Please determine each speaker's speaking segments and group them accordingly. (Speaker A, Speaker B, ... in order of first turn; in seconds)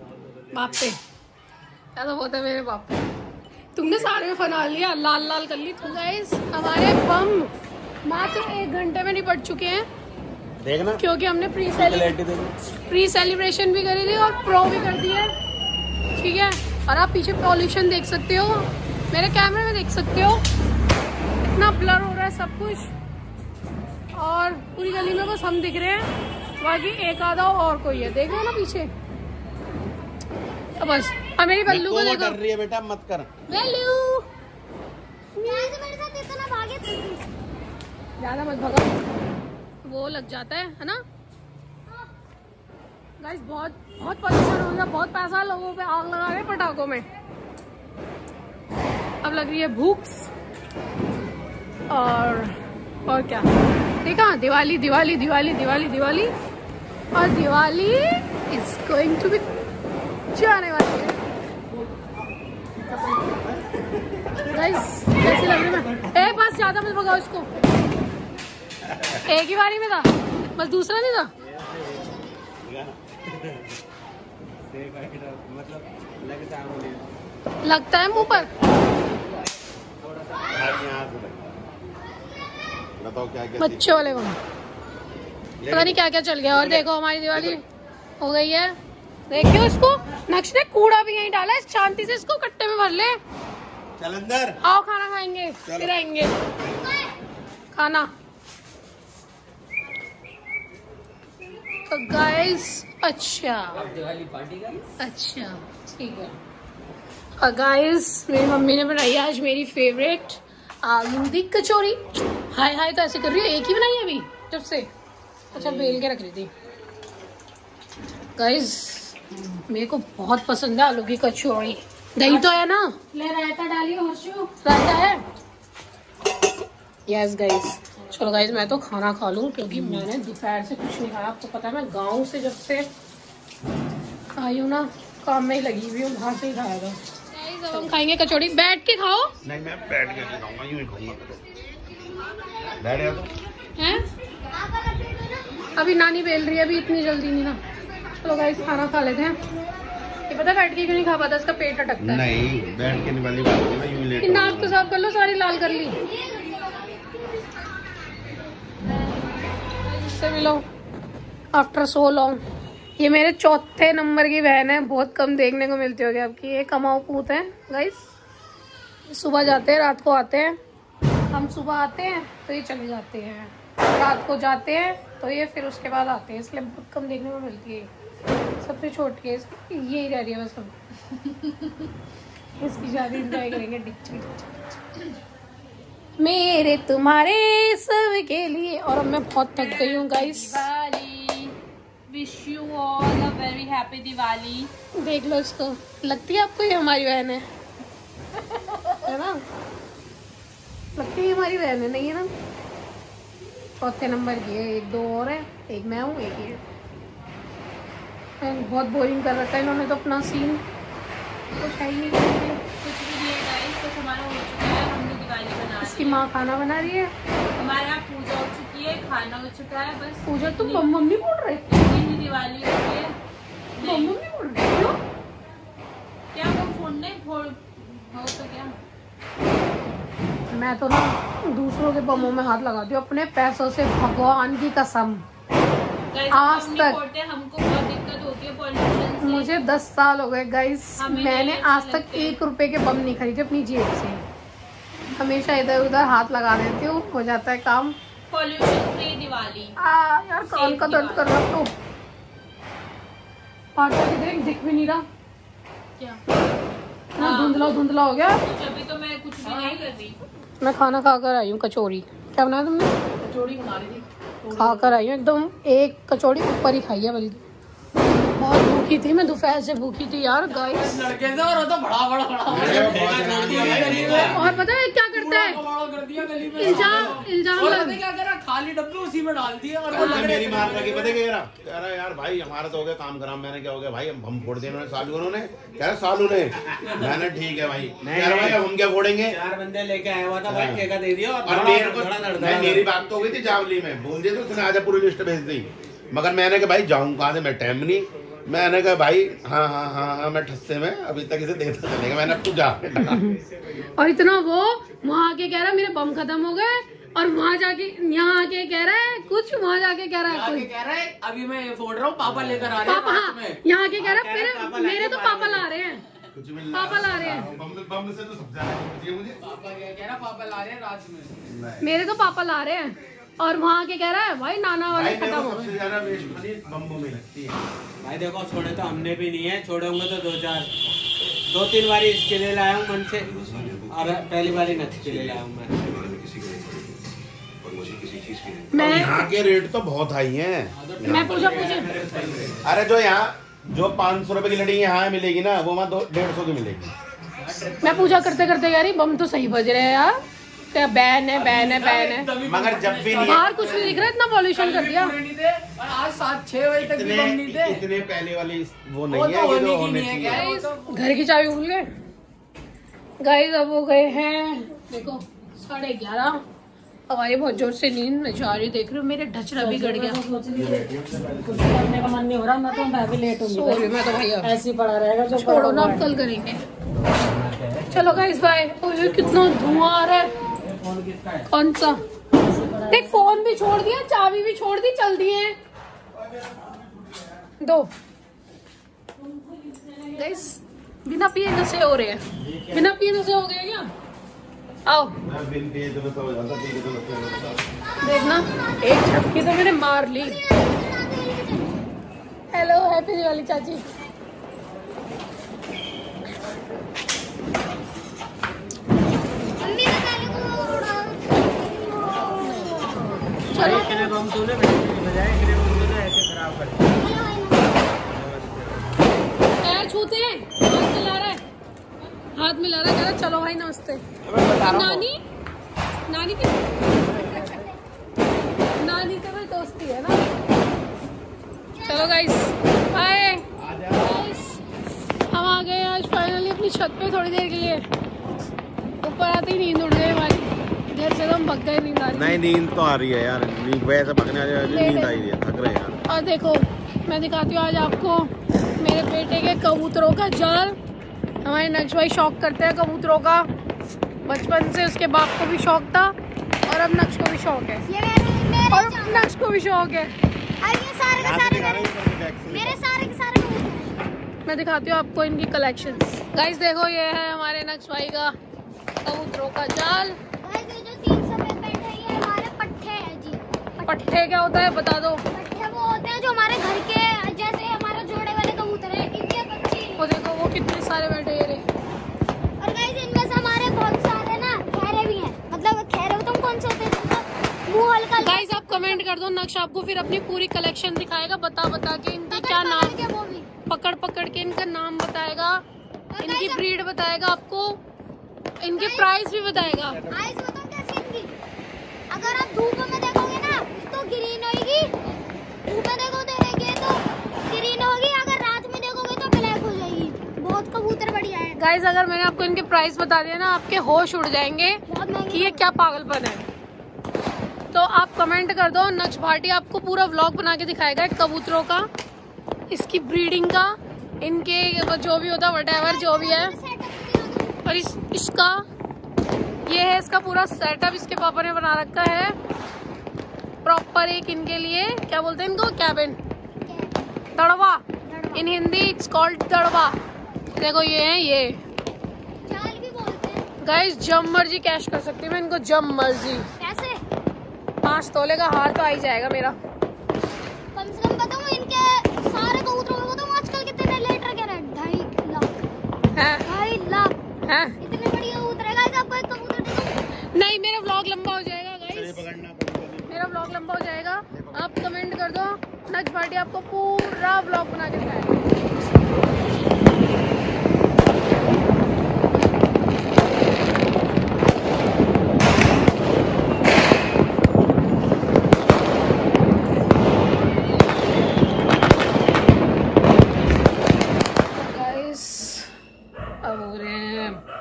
Speaker A: 0.5-1.0, 1.9-3.0, 3.7-7.5, 8.1-9.8, 11.0-12.2, 12.9-15.3, 16.1-20.4, 21.6-22.9, 24.1-28.9, 30.8-32.4, 33.5-34.2, 35.4-35.8, 38.2-38.9, 39.8-41.0, 43.2-47.0, 49.2-50.3, 51.9-52.5, 53.1-53.5, 54.0-56.3, 57.1-59.5, 60.3-61.2, 64.5-67.5, 69.2-71.3, 77.6-78.5, 83.6-84.4, 85.7-87.6, 88.2-88.8, 89.3-93.2, 94.6-96.3, 97.7-98.1, 101.8-103.8, 105.0-106.3, 107.4-114.9, 115.5-116.5, 118.4-119.2, 119.7-123.0, 124.6-125.2, 127.1-132.9, 134.3-139.3, 143.8-144.0, 145.8-147.6, 148.2-149.4, 150.3-152.3, 154.2-156.0, 159.8-160.6, 161.5-162.4, 163.0-168.1, 169.1-170.6, 171.3-177.9, 178.6-180.7, 182.6-184.7, 186.2-190.7, 194.9-197.4, 199.0-199.4, 200.9-202.3, 203.8-206.6, 208.4-210.6, 211.6-212.6, 215.8-217.1, 220.2-221.8, 223.8-225.0, 230.5-235.2, 236.3-237.0, 239.2-244.2, 245.2-247.9, 249.8-251.7, 253.8-255.1, 257.1-258.4, 260.6-262.9, 264.5-267.4, 268.4-271.0, 274.1-275.6, 276.5-278.0, 279.9-280.4, 303.0-310.7, 312.8-316.0, 316.7-317.5, 321.8-325.8, 338.7-339.2, 341.0-341.9, 347.8-352.3, 353.2-355.1, 360.3-361.9, 363.2-366.4, 367.1-370.3, 373.4-374.6, 375.3-376.6, 377.9-380.3, 381.5-382.0, 382.9-385.6, 387.6-387.9, 390.1-393.9, 394.9-395.2, 398.0-400.4, 402.5-403.8, 412.4-414.1, 419.6-421.4, 422.4-424.0, 424.6-425.2, 426.1-427.6, 428.8-430.2, 431.9-434.6, 435.3-437.8, 439.0-442.4, 444.6-445.2, 446.1-450.8, 451.4-453.5, 454.2-456.1, 456.7-457.9, 458.7-460.1, 464.4-468.3, 469.0-470.2, 473.8-475.2, 480.0-481.7, 488.2-493.0, 493.7-495.6, 496.2-497.8, 498.6-500.0, 511.6-516.4, 517.7-521.9, 522.7-526.5, 527.6-528.6, 529.6-532.3, 533.6-536.2, 537.4-540.0, 540.5-541.6, 543.6-546.5, 547.8-549.6, 556.1-556.5, 557.5-557.8, 560.3-562.2, 563.1-568.5, 584.5-585.7, 586.4-587.4
Speaker B: 10.6-11.0, 11.7-12.5, 31.6-33.3, 68.8-69.2, 72.6-73.6, 78.1-78.5, 80.5-81.7, 83.0-84.1, 85.6-86.8, 94.0-94.6, 95.7-95.9, 139.4-141.4, 142.8-143.3, 152.0-154.8, 272.5-274.7, 276.6-277.0, 279.9-289.4, 290.4-290.9, 291.4-303.2, 312.2-312.9, 316.3-319.4, 321.4-321.9, 324.9-327.6, 337.6-346.9, 352.4-354.0, 356.8-360.5, 370.5-372.1, 395.2-397.6, 433.6-434.2, 442.1-446.0, 461.1-462.8, 561.9-563.3, 564.3-564.7
Speaker C: 35.4-37.3, 96.6-97.1, 142.0-143.3, 144.5-145.7, 155.5-158.0, 397.8-399.5, 400.1-401.8, 409.6-414.1, 416.9-417.9, 431.7-432.3, 457.9-459.3, 460.6-461.9, 462.5-464.0, 470.4-474.0, 475.3-480.1, 482.6-489.0, 492.3-493.5, 496.1-496.6, 498.8-499.3, 500.1-501.3, 502.1-504.9, 505.7-511.6, 514.9-515.7, 525.8-527.6, 536.6-537.0, 538.0-538.5, 542.5-543.4, 546.6-547.0, 550.7-555.7, 556.5-557.1, 557.8-560.0
Speaker D: 71.4-72.2, 74.7-77.1, 80.0-80.7, 103.7-104.9, 272.5-274.3, 288.0-288.6, 289.2-292.9, 312.3-312.6, 313.9-315.7, 328.0-330.7, 331.2-335.9, 341.1-342.7, 377.0-378.3, 379.0-379.9, 380.6-381.5, 392.4-392.9, 413.5-416.9, 418.1-418.8, 424.2-425.1
Speaker E: 189.5-191.5, 192.1-194.7, 212.8-216.2, 217.6-220.8, 221.7-223.1, 223.8-224.2, 226.3-228.8, 236.1-239.7, 241.0-242.4, 248.3-249.7, 250.4-251.4, 257.2-257.8, 258.4-260.2
Speaker F: 259.4-259.8, 263.2-264.9, 270.6-274.4, 275.1-281.2, 310.3-313.6, 319.4-321.4, 340.7-342.3, 347.3-348.3, 351.3-357.8, 359.1-361.2
Speaker G: 369.6-370.8, 371.5-373.9, 374.4-376.1, 382.5-383.0